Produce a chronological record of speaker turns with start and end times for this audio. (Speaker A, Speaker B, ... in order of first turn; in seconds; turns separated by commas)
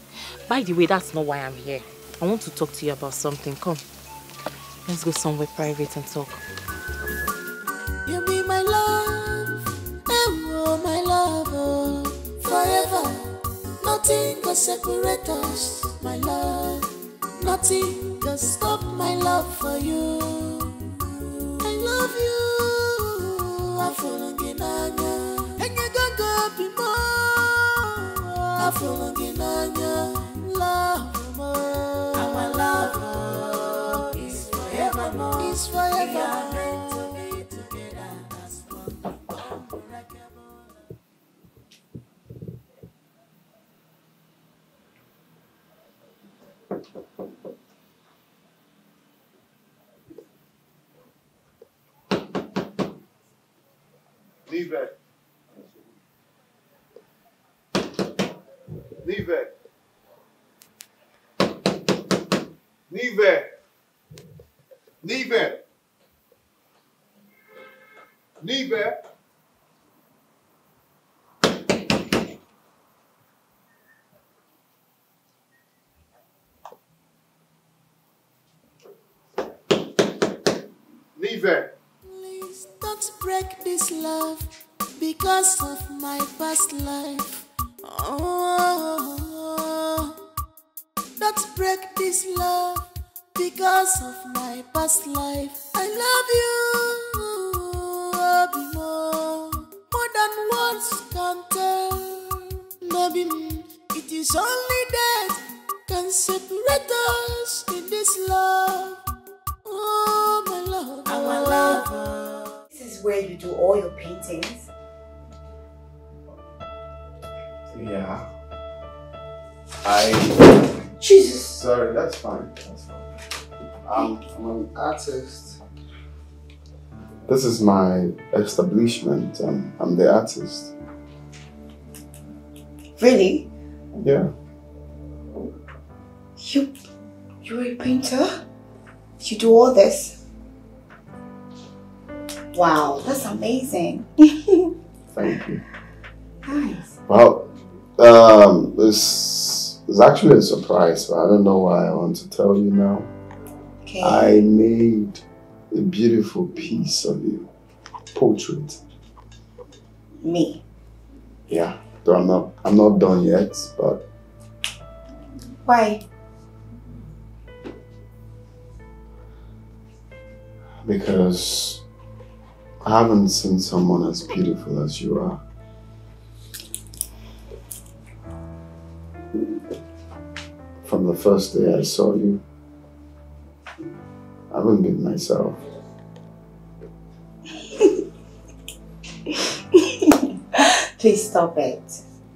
Speaker A: 0.5-3.9, Speaker A: 4.8-6.4, Speaker B: 8.0-13.3, Speaker B: 13.8-16.9, Speaker B: 17.4-20.8, Speaker B: 21.6-40.3, Speaker C: 54.5-54.9, Speaker C: 59.0-59.5, Speaker C: 62.9-63.5, Speaker C: 65.0-65.6, Speaker C: 68.4-69.0, Speaker C: 81.2-81.7, Speaker B: 82.0-90.1, Speaker B: 91.2-109.0, Speaker B: 109.7-112.0, Speaker D: 112.7-114.7, Speaker C: 117.7-118.2, Speaker C: 119.8-120.8, Speaker D: 121.0-121.6, Speaker C: 121.4-123.0, Speaker C: 123.8-125.6, Speaker C: 127.3-130.7, Speaker D: 133.0-133.5, Speaker C: 133.9-134.3, Speaker D: 136.4-136.7, Speaker D: 137.4-138.4, Speaker D: 139.2-140.2, Speaker D: 142.5-144.7, Speaker C: 145.1-145.6, Speaker D: 146.4-146.9, Speaker C: 147.1-147.4, Speaker C: 148.0-153.1, Speaker D: 153.8-154.4, Speaker C: 154.0-157.5, Speaker C: 158.1-158.8, Speaker D: 160.2-160.6, Speaker C: 161.5-164.0, Speaker D: 165.6-166.0, Speaker C: 170.8-171.8, Speaker C: 172.8-175.4, Speaker C: 180.8-182.4, Speaker C: 184.5-185.6, Speaker D: 187.6-188.0, Speaker D: 189.3-192.0